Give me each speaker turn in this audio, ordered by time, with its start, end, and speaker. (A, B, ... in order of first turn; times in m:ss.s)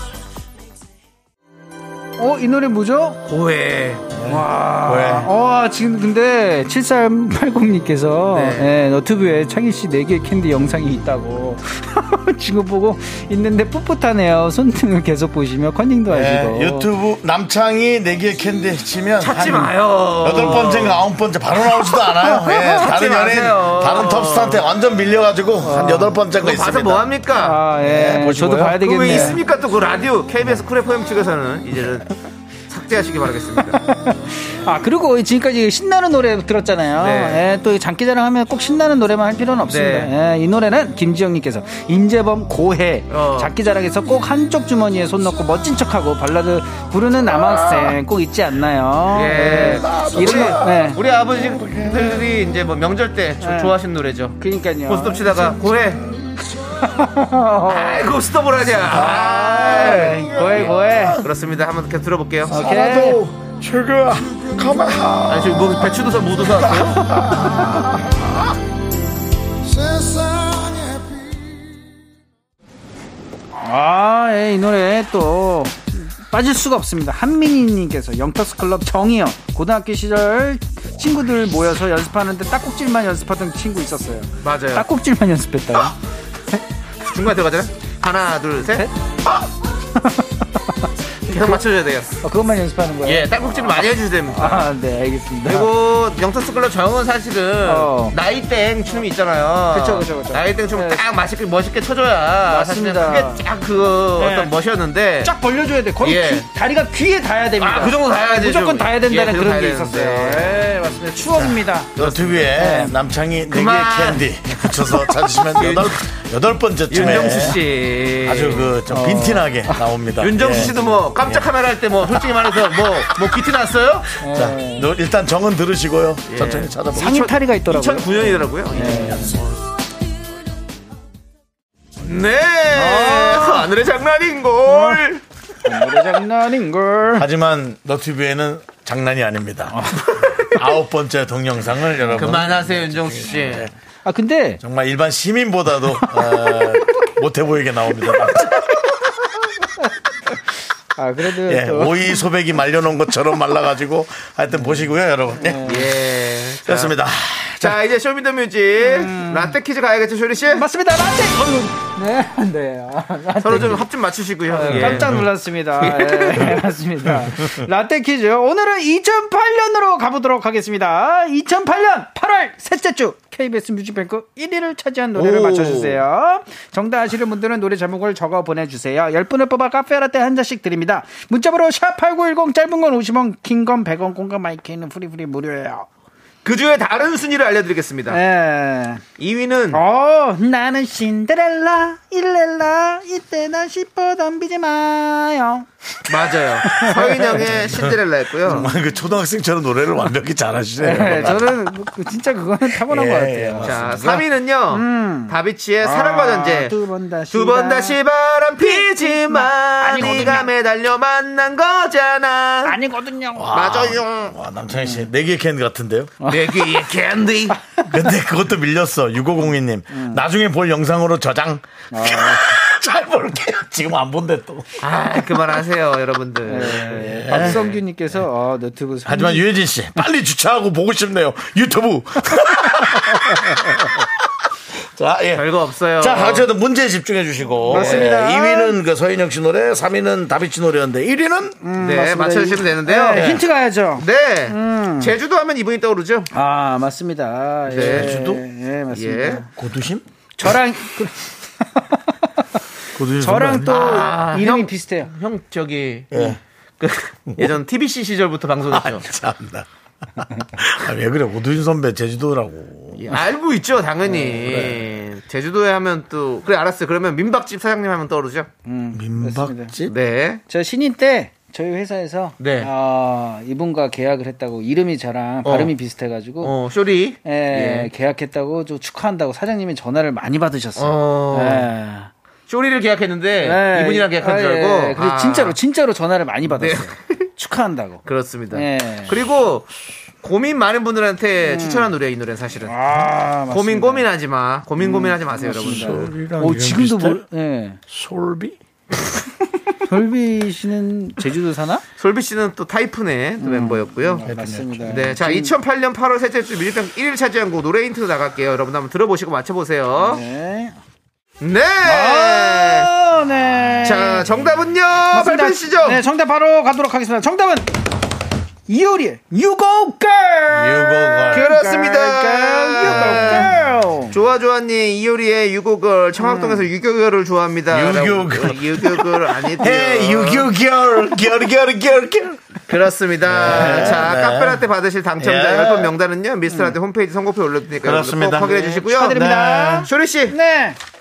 0:02.2-0:03.2 A
0:03.2-0:04.1 B
0:04.2-0:05.3 C
0:04.2-0:16.9 A
0:08.3-0:08.7 B
0:16.1-0:27.1 C
0:19.2-0:21.0 B
0:22.3-0:22.8 A
0:22.7-0:24.6 B
0:25.6-0:26.2 A
0:26.3-0:27.6 B
0:27.3-0:29.4 A
0:27.8-0:28.8 C
0:28.8-0:32.1 B
0:32.7-0:33.8 B
0:33.8-0:51.0 A
0:37.0-0:37.4 B
0:39.7-0:40.1 B
0:43.1-0:43.5 B
0:47.4-0:47.9 C
0:49.1-0:56.0 B
0:49.5-0:52.3 C
0:53.4-0:53.7 A
0:54.4-0:55.6 A
0:56.8-0:58.2 A
0:57.6-1:02.6 B
0:58.9-1:01.2 A
1:00.6-1:01.2 C
1:02.5-1:03.2 A
1:02.5-1:06.0 C
1:05.3-1:07.4 B
1:06.6-1:08.4 C
1:07.1-1:07.8 A
1:09.6-1:11.1 C
1:13.5-1:26.0 A
1:24.4-1:24.8 B
1:27.0-1:28.9 B
1:28.6-1:28.9 A
1:29.9-1:31.6 A
1:31.3-1:32.2 B
1:32.2-1:35.7 A
1:33.0-1:34.7 B
1:35.4-1:45.3 B
1:37.6-1:38.1 A
1:39.7-1:41.0 A
1:42.4-1:43.4 A
1:44.2-1:44.5 A
1:45.2-1:52.9 A
1:46.0-1:46.5 B
1:47.6-1:50.7 B
1:51.4-1:57.6 C
1:52.0-1:52.5 B
1:53.5-1:56.0 B
1:56.9-1:58.7 B
1:57.0-1:57.4 A
1:58.2-2:01.5 C
1:58.9-1:59.8 A
2:00.2-2:04.1 B
2:04.2-2:04.9 A
2:04.3-2:07.2 C
2:06.3-2:09.6 B
2:06.9-2:09.4 A
2:12.0-2:15.2 B
2:12.7-2:13.7 A
2:14.6-2:15.0 A
2:15.6-2:17.2 A
2:17.2-2:19.9 C
2:19.7-2:20.5 A
2:20.4-2:23.7 C
2:22.2-2:23.7 B
2:24.0-2:24.6 A
2:24.6-2:28.7 C
2:26.1-2:26.8 A
2:28.1-2:28.5 A
2:30.9-2:32.2 A
2:31.4-2:35.9 C
2:35.4-2:35.9 A
2:35.6-2:36.9 B
2:36.6-2:37.8 C
2:37.6-2:40.6 B
2:38.8-2:39.5 A
2:40.5-2:43.9 A
2:43.4-2:45.2 B
2:44.5-3:05.8 A
2:44.7-2:45.3 C
2:45.8-2:46.6 B
2:55.2-2:56.0 B
3:06.4-3:08.2 B
3:08.1-3:09.0 A
3:09.2-3:09.8 B
3:09.7-3:15.7 A
3:16.1-3:18.7 B
3:16.7-3:17.4 A
3:17.6-3:21.7 C
3:18.5-3:18.8 A
3:20.8-3:28.0 A
3:22.7-3:24.1 C
3:23.6-3:26.7 B
3:27.3-3:32.8 B
3:28.6-3:30.5 A
3:32.6-3:33.5 A
3:33.3-3:36.1 C
3:33.5-3:34.3 B
3:36.2-3:36.9 A
3:36.2-3:37.6 B
3:37.9-3:44.7 C
3:39.9-3:40.2 A
3:41.9-3:42.5 A
3:44.8-3:47.7 B
3:46.4-3:49.5 A
3:46.9-3:47.6 C
3:49.0-4:01.6 C
3:55.3-3:56.5 B
3:57.7-3:58.1 B
3:57.7-3:58.8 A
4:01.6-4:05.1 A
4:01.8-4:03.4 B
4:03.2-4:03.4 C
4:04.0-4:06.3 B
4:06.3-4:09.5 A
4:07.7-4:08.1 B
4:07.8-4:08.4 C
4:08.9-4:09.4 B
4:09.6-4:10.0 C
4:10.4-4:12.0 A
4:13.0-4:13.9 C
4:13.1-4:15.1 A
4:13.7-4:19.1 B
4:16.1-4:16.4 C
4:18.7-4:23.1 C
4:23.0-4:28.5 B
4:24.4-4:24.8 C
4:28.6-4:29.7 A
4:28.9-4:29.9 C
4:29.9-4:30.4 B
4:30.5-4:36.6 A
4:32.4-4:32.7 B
4:35.4-4:35.7 B
4:36.4-4:37.9 B
4:37.2-4:42.1 A
4:40.8-4:41.7 B
4:42.5-4:45.6 B
4:43.4-4:49.2 A
4:46.5-4:47.3 B
4:48.0-4:49.7 B
4:50.2-4:56.1 B
4:51.4-4:51.9 A
4:52.6-4:54.1 A
4:54.8-4:57.8 A
4:55.4-4:57.2 C
4:57.9-4:58.6 C
4:59.9-5:01.8 A
5:02.0-5:04.3 B
5:03.4-5:05.5 A
5:04.2-5:05.0 C
5:04.9-5:10.2 B
5:10.0-5:10.8 A
5:11.4-5:12.9 B
5:11.8-5:14.4 A
5:13.8-5:16.0 B
5:15.1-5:17.7 A
5:18.7-5:24.1 A
5:20.5-5:21.5 C
5:21.3-5:23.6 B
5:22.8-5:23.5 C
5:24.1-5:30.5 B
5:26.2-5:26.7 A
5:27.7-5:32.4 C
5:32.7-5:39.2 B
5:33.2-5:34.6 C
5:35.2-5:35.9 C
5:37.8-5:39.9 C
5:38.9-5:40.8 A
5:39.8-5:40.4 B